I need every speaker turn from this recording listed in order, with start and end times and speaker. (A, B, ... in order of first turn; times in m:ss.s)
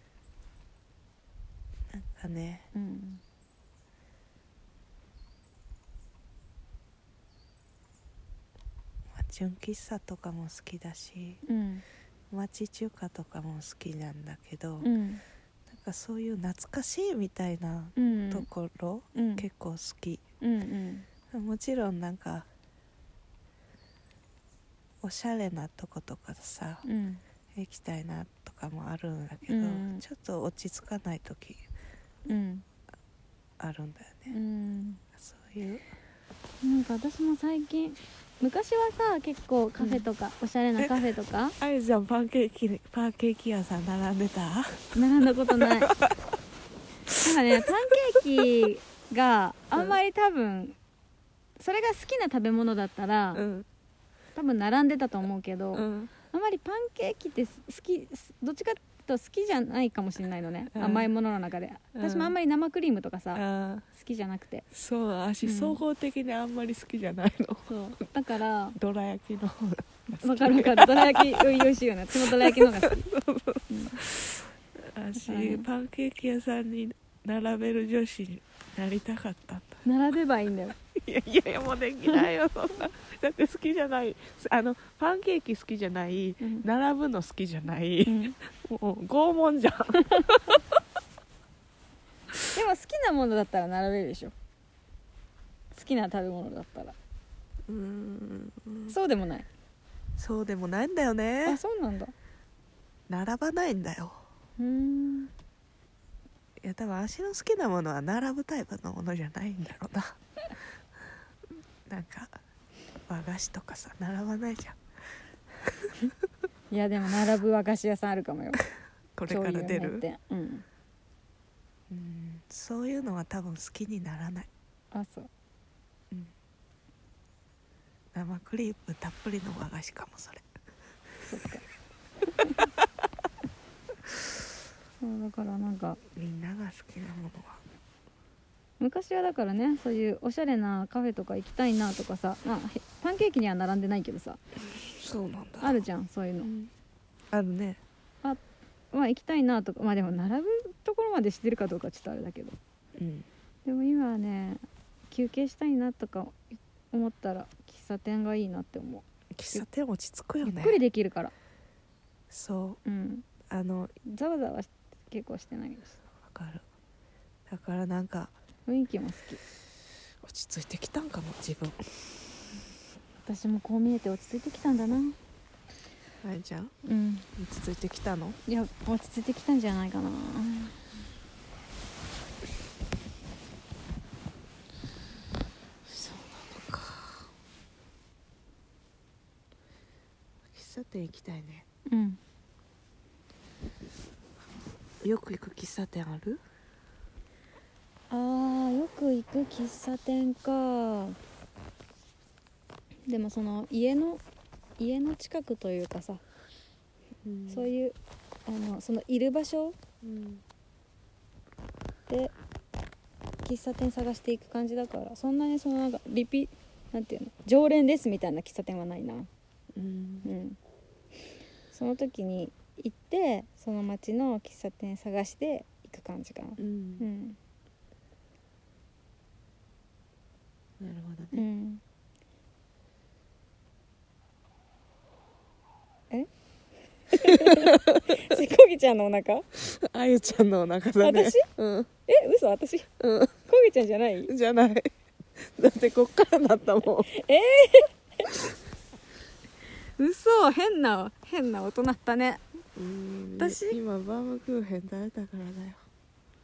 0:01.9-0:02.7 A
0:02.7-0:03.2 B
0:09.1-0:11.4 A
0:11.4-0:11.8 B
0:12.3-0:14.9 A
0:14.8-0:15.2 B
0:15.7-0:20.2 A
0:18.0-0:18.5 B
0:19.1-0:19.4 B
0:20.4-0:21.1 B
0:21.3-0:22.5 A
0:25.0-0:26.8 A
0:26.8-0:27.2 B
0:27.5-0:31.6 A
0:29.5-0:30.0 B
0:32.3-0:32.6 B
0:33.6-0:34.4 A
0:34.3-0:35.0 B
0:35.1-0:35.8 A
0:36.6-0:41.6 B
0:41.6-0:45.0 A
0:44.9-0:45.9 B
0:45.5-0:46.2 A
0:47.1-0:48.2 A
0:47.2-0:50.8 B
0:51.6-0:53.4 B
0:53.3-0:53.6 A
0:54.4-1:04.6 B
0:55.7-0:56.1 A
1:00.7-1:01.1 A
1:01.9-1:02.3 A
1:03.3-1:03.8 A
1:04.7-1:07.7 A
1:05.4-1:05.8 B
1:07.7-1:08.8 B
1:08.8-1:19.8 A
1:10.2-1:13.1 B
1:13.7-1:14.0 B
1:15.2-1:15.6 B
1:19.8-1:20.8 B
1:20.9-1:30.6 A
1:28.0-1:28.4 B
1:30.0-1:30.4 B
1:32.5-1:34.3 B
1:35.7-1:36.9 B
1:37.7-1:39.0 A
1:38.9-1:39.5 B
1:40.2-1:41.6 A
1:41.4-1:42.1 B
1:43.1-1:44.2 A
1:44.6-1:45.3 B
1:46.6-1:50.2 A
1:51.9-1:52.3 A
1:53.1-1:54.8 A
1:55.6-1:56.0 A
1:56.7-1:58.6 B
1:59.2-2:00.0 A
1:59.3-2:00.6 B
2:01.9-2:04.5 A
2:04.9-2:05.3 B
2:08.1-2:10.4 A
2:11.3-2:11.6 B
2:12.4-2:12.6 B
2:15.0-2:16.0 B
2:16.1-2:17.6 A
2:18.8-2:24.4 B
2:24.8-2:25.8 A
2:25.6-2:26.5 B
2:26.4-2:26.7 A
2:27.3-2:27.8 A
2:28.9-2:32.6 B
2:33.0-2:33.2 A
2:33.6-2:39.6 B
2:39.3-2:40.8 A
2:40.4-2:41.3 B
2:42.3-2:42.8 A
2:42.8-2:43.2 B
2:43.5-2:43.9 A
2:44.0-2:46.0 B
2:46.2-2:46.6 A
2:47.5-2:48.3 A
2:48.7-2:49.4 B
2:50.2-2:51.8 A
2:53.2-2:55.2 B
2:56.2-2:56.7 A
2:56.8-2:57.3 B
2:57.4-2:58.4 A
2:58.5-3:00.8 B
3:05.9-3:07.3 A
3:10.5-3:11.6 A
3:11.9-3:12.2 B
3:15.0-3:16.4 A
3:18.1-3:21.2 B
3:23.1-3:24.2 B
3:24.8-3:26.2 B
3:27.2-3:27.7 A
3:27.5-3:29.8 B
3:30.0-3:30.4 A
3:33.4-3:39.3 B
3:39.7-3:40.3 A
3:40.2-3:40.6 B
3:41.7-3:47.4 B
3:46.6-3:47.0 A
3:50.8-3:51.4 A
3:51.3-3:51.8 B
3:57.1-3:59.4 B
3:57.1-3:58.2 A
3:59.5-4:01.9 A
4:01.0-4:01.5 B
4:02.1-4:02.9 B
4:03.0-4:03.3 A
4:03.5-4:04.3 B
4:04.3-4:07.1 A
4:07.1-4:08.3 B
4:10.0-4:12.4 B
4:12.8-4:15.8 A
4:13.4-4:13.8 B